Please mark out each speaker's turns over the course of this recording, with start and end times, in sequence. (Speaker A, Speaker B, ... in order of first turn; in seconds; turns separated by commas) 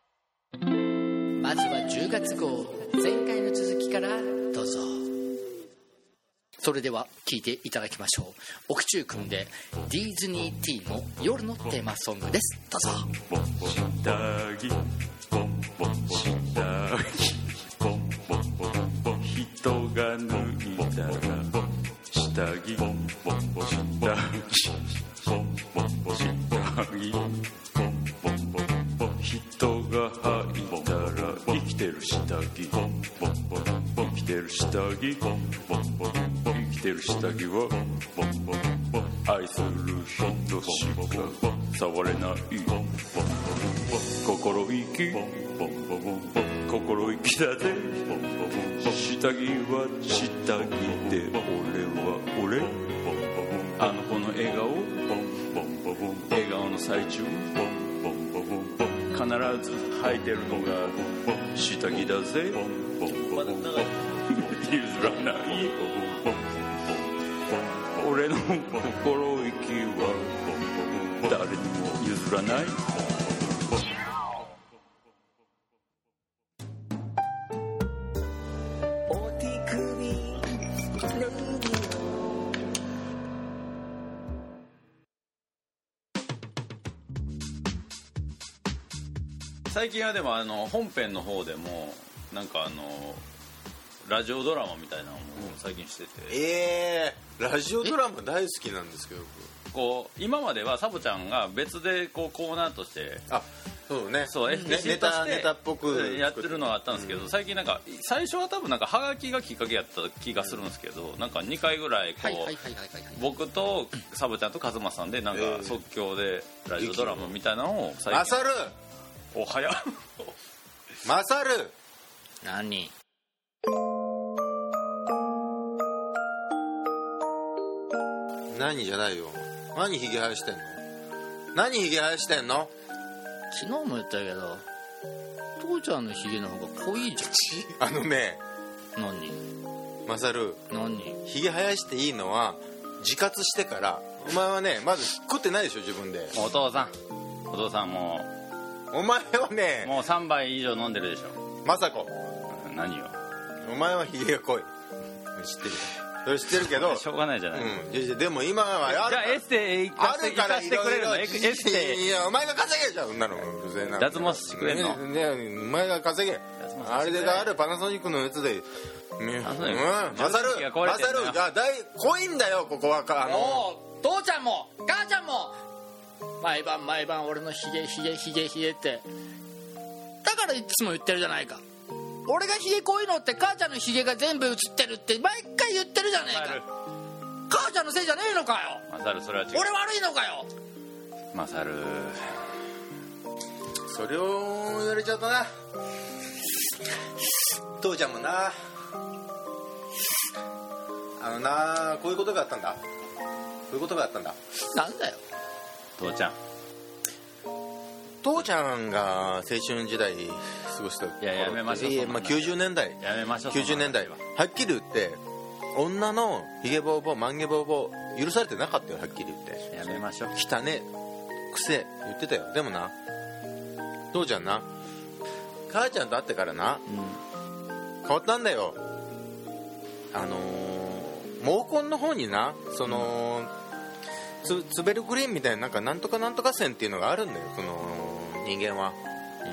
Speaker A: 1.4-5.1, Speaker A: 6.6-13.1, Speaker B: 13.3-14.8, Speaker B: 15.3-66.6, Speaker C: 60.0-60.9, Speaker C: 63.0-65.8, Speaker B: 67.5-73.4, Speaker D: 79.1-82.5, Speaker C: 89.7-93.2, Speaker C: 94.0-96.4, Speaker E: 96.3-99.5, Speaker C: 99.7-103.2, Speaker E: 103.3-107.3, Speaker C: 104.2-112.5, Speaker A: 112.2-113.2, Speaker C: 113.2-118.5, Speaker E: 115.3-115.8, Speaker E: 116.8-117.3, Speaker E: 118.1-118.7, Speaker C: 119.3-120.0, Speaker E: 121.0-121.7, Speaker A: 122.4-122.9, Speaker E: 128.5-130.8, Speaker E: 131.5-132.7, Speaker A: 133.5-134.6, Speaker A: 135.6-137.6, Speaker E: 137.7-138.4, Speaker A: 138.9-139.4, Speaker E: 140.1-140.6, Speaker A: 140.7-141.2, Speaker E: 141.2-146.3, Speaker C: 146.3-146.9, Speaker C: 147.5-148.3, Speaker E: 148.9-149.9, Speaker C: 149.8-151.4, Speaker E: 151.6-152.1, Speaker C: 152.5-153.1, Speaker E: 153.6-154.7, Speaker E: 155.4-159.4, Speaker C: 156.5-157.8, Speaker C: 158.8-162.0, Speaker E: 159.9-173.7, Speaker C: 164.0-165.0, Speaker C: 166.6-167.6, Speaker C: 169.4-171.4, Speaker A: 173.2-175.6, Speaker A: 176.4-179.1, Speaker A: 180.2-181.6, Speaker A: 182.2-186.6, Speaker C: 186.2-186.6, Speaker A: 187.5-188.8, Speaker C: 188.9-189.7, Speaker A: 189.5-190.5, Speaker C: 191.3-192.4, Speaker E: 193.9-195.5, Speaker E: 197.8-198.5, Speaker E: 201.2-202.8, Speaker E: 203.7-204.3, Speaker A: 204.7-205.2, Speaker C: 206.0-206.4, Speaker E: 208.2-213.0, Speaker C: 211.2-214.2, Speaker E: 213.5-215.2, Speaker E: 215.7-220.9, Speaker C: 219.7-220.3, Speaker E: 221.5-222.9, Speaker E: 224.1-224.7, Speaker E: 225.7-226.8, Speaker E: 228.0-228.8, Speaker E: 230.1-233.5, Speaker E: 234.4-239.0